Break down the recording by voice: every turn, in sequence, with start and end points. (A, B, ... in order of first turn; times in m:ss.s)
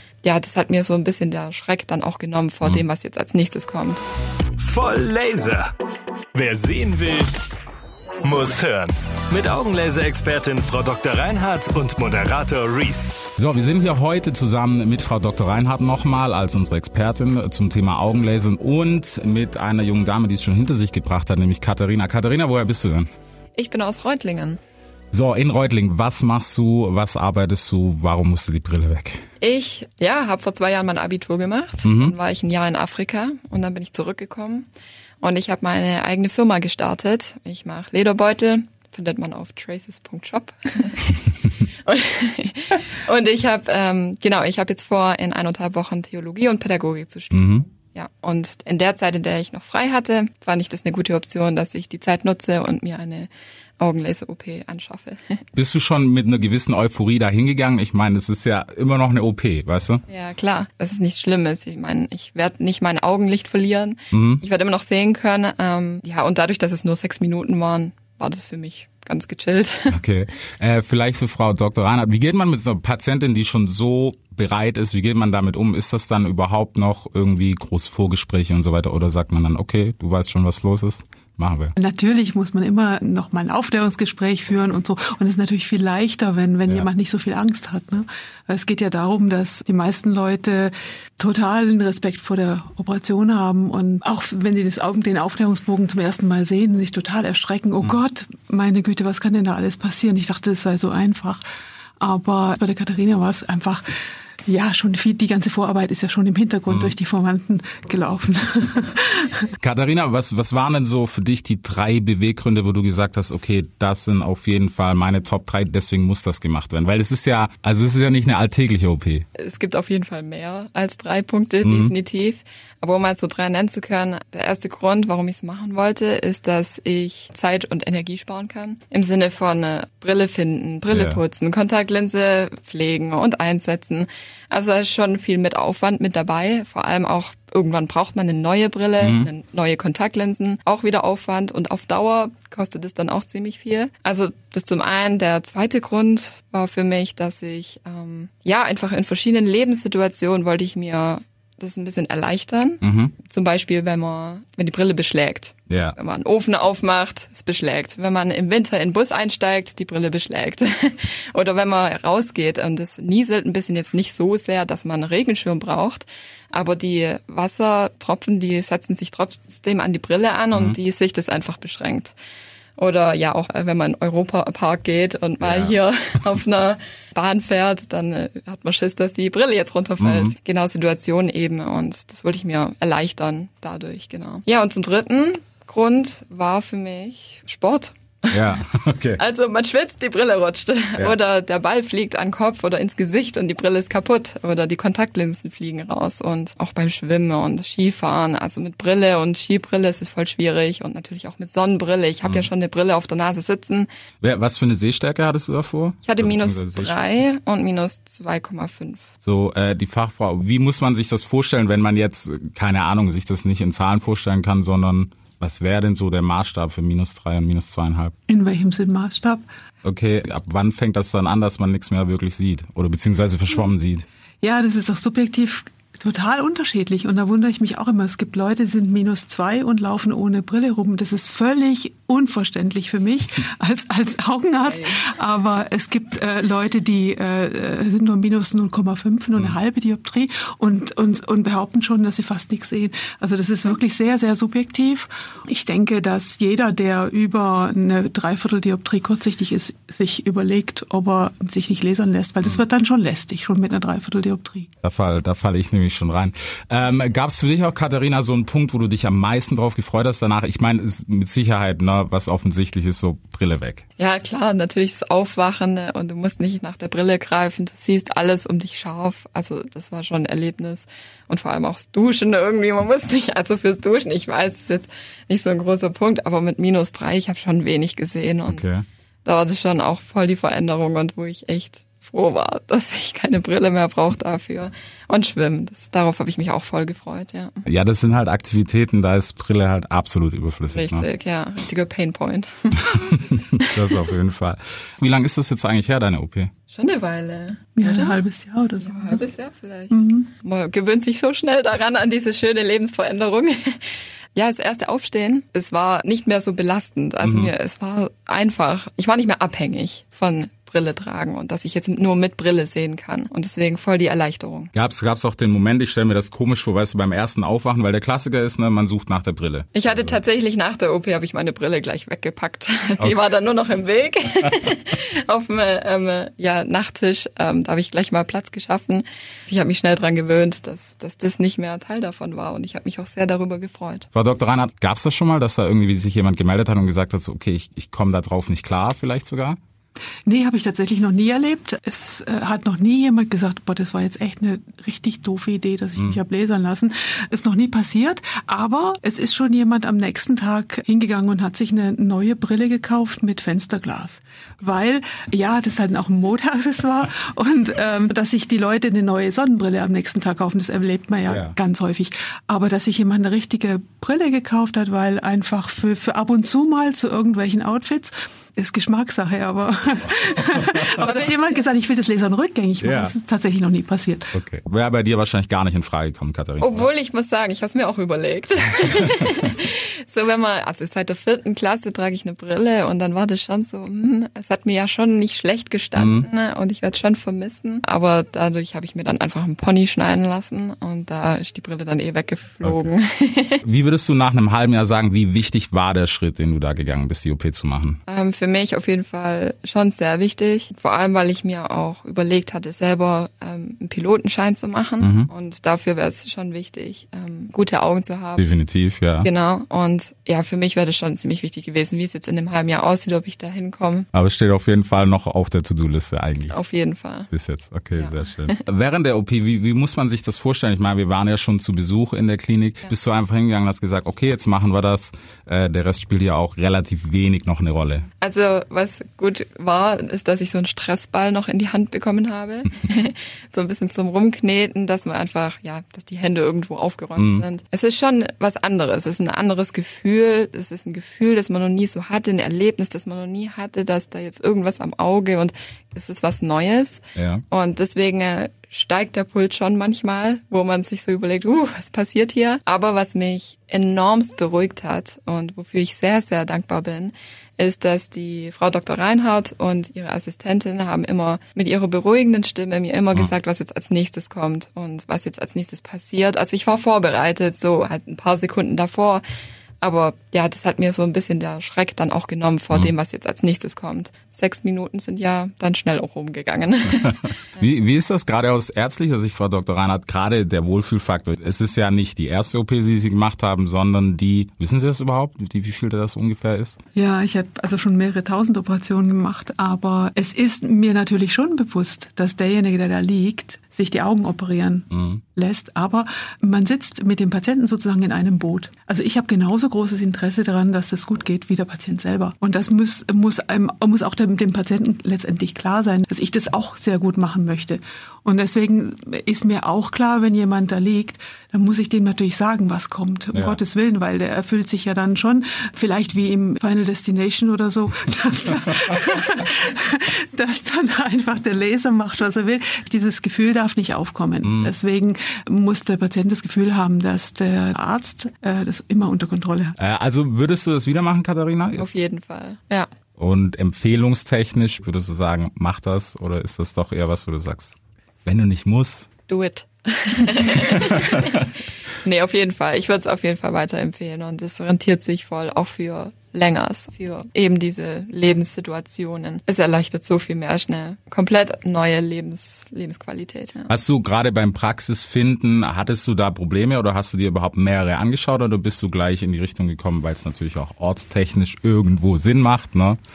0:00.2-0:04.0 A
0:04.6-0:05.7 B
0:06.3-0:07.3 B
0:08.2-0:13.2 B
0:13.4-0:23.1 C
0:23.6-0:24.6 A
0:25.1-0:29.2 C
0:29.4-0:34.7 A
0:31.8-0:32.2 C
0:35.2-0:55.4 A
0:47.3-0:47.6 C
0:55.6-1:00.0 C
1:00.1-1:10.0 A
1:04.1-1:04.4 C
1:09.9-1:21.7 C
1:21.8-1:41.4 D
1:42.0-1:43.8 D
1:44.5-1:49.4 D
1:46.7-1:47.0 C
1:49.6-1:59.3 C
1:59.4-2:52.1 A
2:01.6-2:01.9 C
2:10.9-2:11.2 C
2:19.0-2:19.3 C
2:32.8-2:33.2 C
2:35.7-2:36.0 C
2:52.8-3:08.4 A
2:55.4-2:55.8 C
3:00.0-3:00.3 C
3:08.3-3:09.2 C
3:09.2-3:23.9 A
3:22.2-3:22.5 C
3:24.2-3:27.0 C
3:26.0-3:29.1 A
3:29.2-3:38.1 C
3:38.3-3:39.4 D
3:39.8-3:44.1 C
3:44.4-4:14.7 D
3:54.8-3:55.0 A
4:14.8-4:23.8 C
4:24.0-4:38.6 A
4:38.5-4:38.9 C
4:39.2-4:47.6 A
4:47.7-4:51.1 C
4:50.7-4:54.0 A
4:53.3-4:56.5 C
4:56.7-4:58.2 A
4:57.8-4:59.2 D
4:58.8-5:14.7 A
4:59.9-5:00.3 D
5:07.2-5:07.5 C
5:14.7-5:20.2 C
5:19.7-5:34.1 A
5:34.1-5:39.6 C
5:40.3-6:14.3 D
6:01.3-6:01.6 C
6:11.0-6:11.6 A
6:12.8-6:13.1 C
6:14.3-6:16.9 C
6:16.6-6:33.6 A
6:26.0-6:26.3 C
6:32.6-6:32.9 C
6:33.6-6:38.0 C
6:38.1-6:48.5 A
6:45.0-6:45.3 C
6:48.4-6:49.3 C
6:49.2-6:54.1 A
6:54.1-6:56.6 C
6:56.5-6:57.3 A
6:57.3-7:08.1 C
6:58.0-6:58.6 A
7:08.2-7:49.2 A
7:17.2-7:17.4 C
7:27.2-7:27.4 C
7:49.8-7:57.7 A
7:57.0-8:06.8 C
8:07.0-8:49.8 D
8:14.9-8:15.2 C
8:33.3-8:33.6 C
8:44.4-8:44.7 C
8:49.8-8:52.0 C
8:51.8-8:52.9 A
8:53.2-8:59.1 C
8:59.3-9:01.5 A
9:00.7-9:01.5 C
9:02.0-9:13.7 A
9:13.7-9:23.0 C